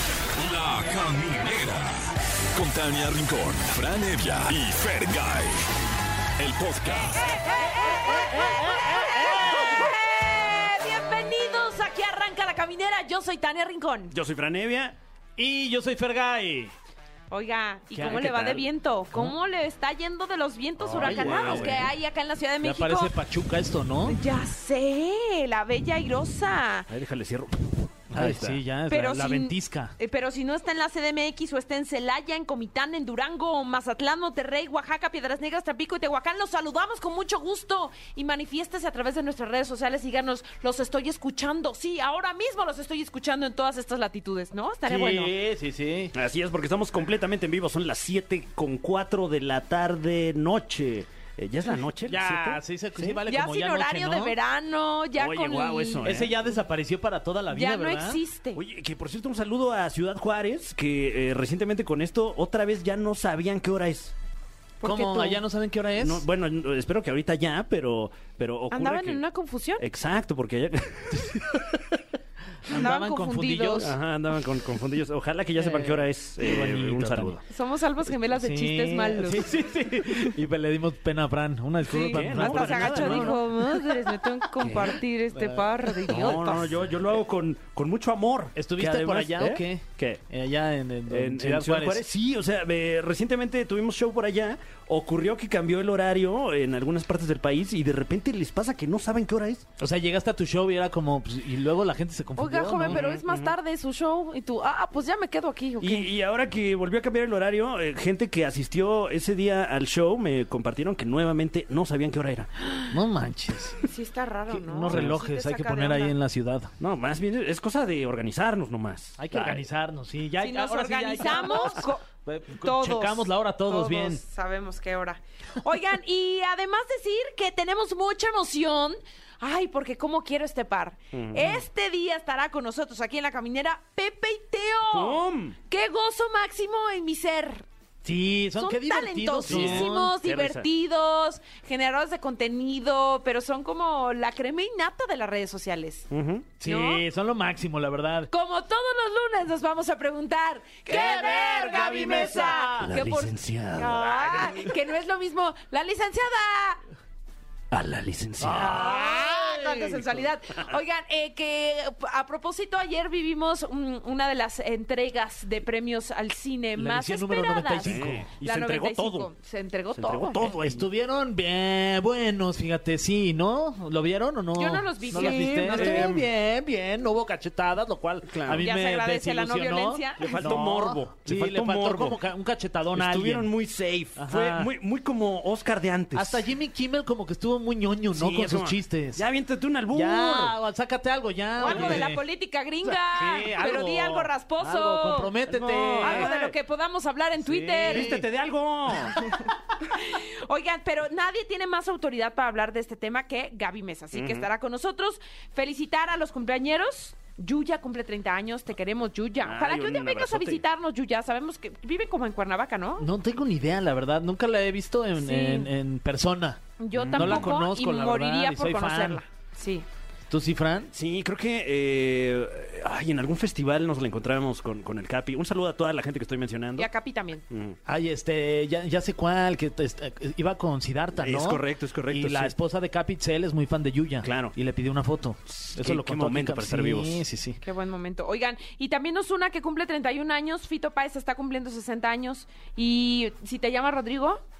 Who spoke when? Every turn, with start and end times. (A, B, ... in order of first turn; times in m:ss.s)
0:00.4-0:05.6 A
0:06.4-0:07.3 A
0:07.2-0:14.1 B
0:08.0-0:09.8 C
0:14.1-0:15.0 D
0:15.4-0:16.7 C
0:17.3-0:23.2 B
0:17.9-0:19.3 C
0:20.8-0:21.9 D
0:20.9-0:21.8 C
0:22.6-0:24.2 C
0:24.0-0:26.9 B
0:26.9-0:28.6 D
0:28.1-0:29.9 C
0:28.9-0:45.3 B
0:44.8-0:46.1 C
0:46.1-0:53.2 D
0:52.1-0:54.4 C
0:53.3-0:56.1 B
0:55.2-0:56.3 D
0:56.0-0:58.2 C
0:57.5-0:58.6 B
0:58.5-1:04.1 D
1:04.8-1:05.4 B
1:04.8-1:06.2 C
1:06.0-1:09.2 D
1:08.7-1:09.8 B
1:09.8-1:12.0 D
1:12.7-1:13.9 C
1:12.7-1:13.9 B
1:13.8-1:17.4 D
1:15.6-1:17.4 C
1:17.5-1:19.5 B
1:18.3-1:23.8 C
1:21.9-1:23.4 D
1:21.9-1:26.7 B
1:24.6-1:26.9 C
1:26.1-1:30.2 D
1:28.6-1:32.0 C
1:31.1-1:39.6 D
1:39.8-1:43.0 C
1:42.4-1:46.1 B
1:42.9-1:43.6 D
1:45.8-1:52.5 D
1:52.9-1:53.8 C
1:53.8-1:56.2 B
1:54.5-1:56.7 C
1:56.8-1:59.6 D
1:59.2-2:04.2 C
2:00.4-2:17.6 B
2:11.1-2:11.6 D
2:14.9-2:15.6 D
2:18.0-2:20.2 C
2:18.6-2:26.1 B
2:19.4-2:20.7 D
2:26.1-2:26.5 D
2:26.6-2:28.3 C
2:26.6-2:27.0 B
2:28.3-2:36.8 B
2:30.9-2:33.0 C
2:32.1-2:34.7 D
2:37.7-2:39.0 D
2:38.4-2:40.2 C
2:38.6-2:50.5 B
2:46.8-2:48.3 C
2:47.8-2:49.3 D
2:49.9-2:50.9 D
2:50.6-3:03.5 C
2:54.5-2:56.2 B
2:55.1-2:56.3 D
2:58.3-2:58.7 D
2:58.6-3:00.6 B
3:00.2-3:02.2 D
3:02.9-3:06.4 D
3:04.2-3:04.7 C
3:06.1-3:09.2 C
3:08.1-3:10.6 D
3:09.9-3:12.2 C
3:11.6-3:15.4 B
3:11.6-3:12.0 D
3:12.8-3:16.3 C
3:15.4-3:16.6 D
3:16.0-3:18.2 B
3:17.4-3:18.2 C
3:17.8-3:19.2 D
3:19.1-3:33.1 B
3:24.1-3:24.5 D
3:29.4-3:30.6 D
3:33.0-3:36.6 C
3:35.2-3:35.7 B
3:36.8-3:39.8 B
3:36.9-3:37.5 D
3:37.1-3:39.2 C
3:40.3-3:40.9 C
3:40.9-3:46.9 D
3:46.8-3:47.4 B
3:47.5-3:47.8 D
3:47.9-3:57.6 C
3:51.2-3:52.5 D
3:54.2-3:54.5 D
3:55.5-3:57.2 D
3:57.6-4:04.4 B